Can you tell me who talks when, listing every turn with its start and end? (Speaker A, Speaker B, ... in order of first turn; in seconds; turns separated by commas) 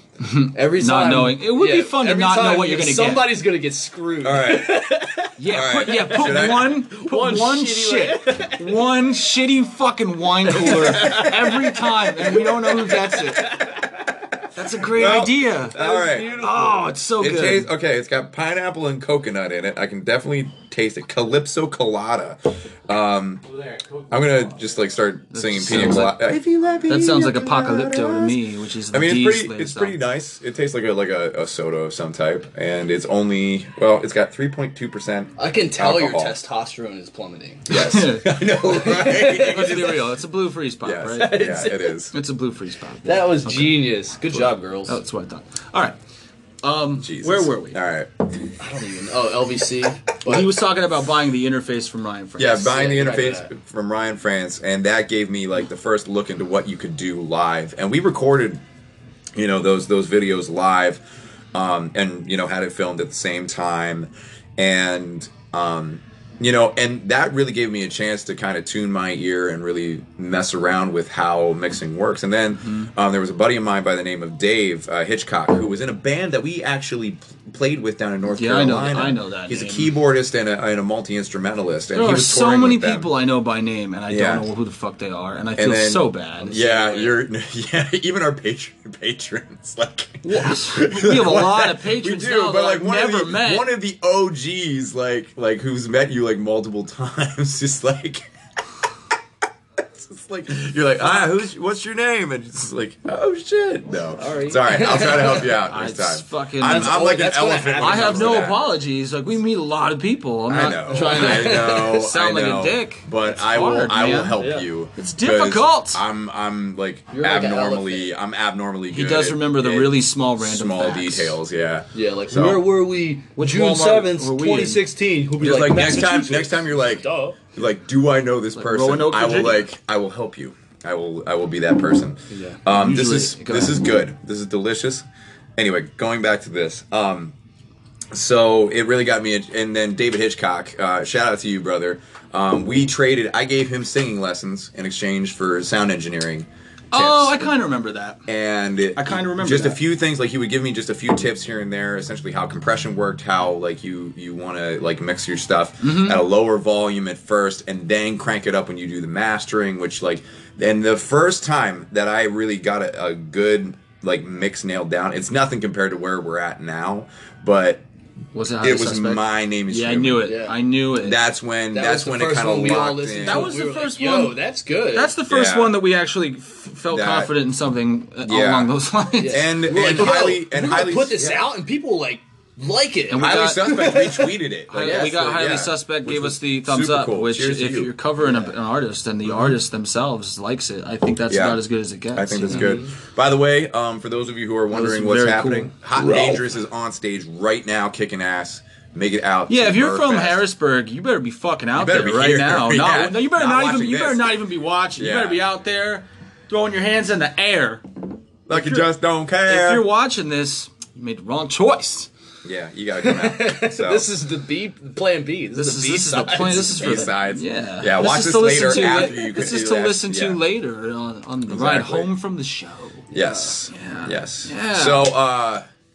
Speaker A: 0.2-3.3, Speaker B: 0.5-5.3, Speaker C: 4.2-4.9, Speaker A: 5.4-13.5, Speaker C: 5.5-6.8, Speaker B: 6.0-8.8, Speaker B: 10.5-13.8, Speaker C: 11.1-11.3, Speaker A: 14.5-15.8, Speaker C: 14.8-16.3, Speaker B: 15.7-16.9, Speaker A: 16.3-17.7, Speaker C: 17.2-23.4, Speaker C: 24.1-28.4, Speaker A: 25.3-26.3, Speaker A: 26.9-30.0, Speaker C: 28.9-36.4, Speaker B: 35.4-37.8, Speaker C: 37.7-40.0, Speaker A: 37.7-38.5, Speaker B: 38.6-40.0, Speaker A: 39.4-41.4, Speaker C: 40.8-42.1, Speaker B: 41.1-42.0, Speaker A: 42.1-46.0, Speaker B: 43.0-45.0, Speaker A: 46.6-47.8, Speaker C: 47.0-48.5, Speaker B: 48.6-50.5, Speaker A: 50.2-52.8, Speaker C: 52.4-58.6, Speaker B: 52.6-53.5, Speaker C: 59.4-61.0, Speaker C: 61.5-83.1, Speaker A: 72.6-72.9, Speaker A: 78.3-79.9, Speaker A: 81.9-86.7, Speaker C: 84.1-84.5, Speaker C: 85.6-98.3, Speaker B: 86.5-87.1, Speaker A: 90.2-93.7, Speaker C: 99.9-108.7, Speaker B: 104.2-105.6, Speaker A: 105.7-107.0, Speaker B: 106.6-108.6, Speaker A: 107.8-114.4, Speaker C: 110.5-122.7, Speaker B: 110.9-111.9, Speaker B: 114.4-114.7, Speaker A: 115.0-116.0, Speaker B: 117.1-118.1, Speaker A: 118.9-121.4, Speaker B: 121.9-127.5, Speaker A: 123.4-124.8, Speaker C: 125.4-135.1, Speaker A: 128.6-129.7, Speaker B: 132.3-132.6, Speaker A: 132.7-133.8, Speaker C: 135.6-137.3, Speaker C: 138.1-147.5, Speaker A: 146.9-148.3, Speaker C: 148.3-167.8, Speaker A: 148.9-149.8, Speaker A: 155.8-156.2, Speaker A: 168.3-171.2, Speaker C: 168.6-170.3, Speaker B: 170.2-170.6, Speaker C: 171.0-173.5, Speaker B: 171.7-175.1, Speaker A: 173.2-174.4, Speaker A: 174.9-179.4, Speaker C: 175.3-175.8, Speaker C: 176.9-177.3, Speaker C: 178.2-178.7, Speaker B: 179.2-185.2, Speaker C: 179.3-181.4, Speaker A: 183.1-183.9, Speaker C: 183.2-187.9, Speaker A: 184.7-192.7, Speaker B: 188.2-188.5, Speaker C: 189.3-189.6, Speaker C: 191.3-191.6, Speaker C: 192.1-200.4, Speaker B: 192.5-192.9, Speaker A: 194.7-195.7, Speaker A: 199.5-207.9, Speaker C: 201.8-204.3, Speaker C: 205.0-205.4, Speaker C: 208.5-209.9, Speaker A: 208.5-208.9, Speaker A: 209.4-212.1, Speaker C: 212.4-214.1, Speaker B: 213.0-217.1, Speaker A: 215.6-223.1, Speaker C: 216.5-220.4, Speaker C: 221.5-222.1, Speaker C: 223.1-225.6, Speaker B: 223.2-223.6, Speaker A: 223.7-225.1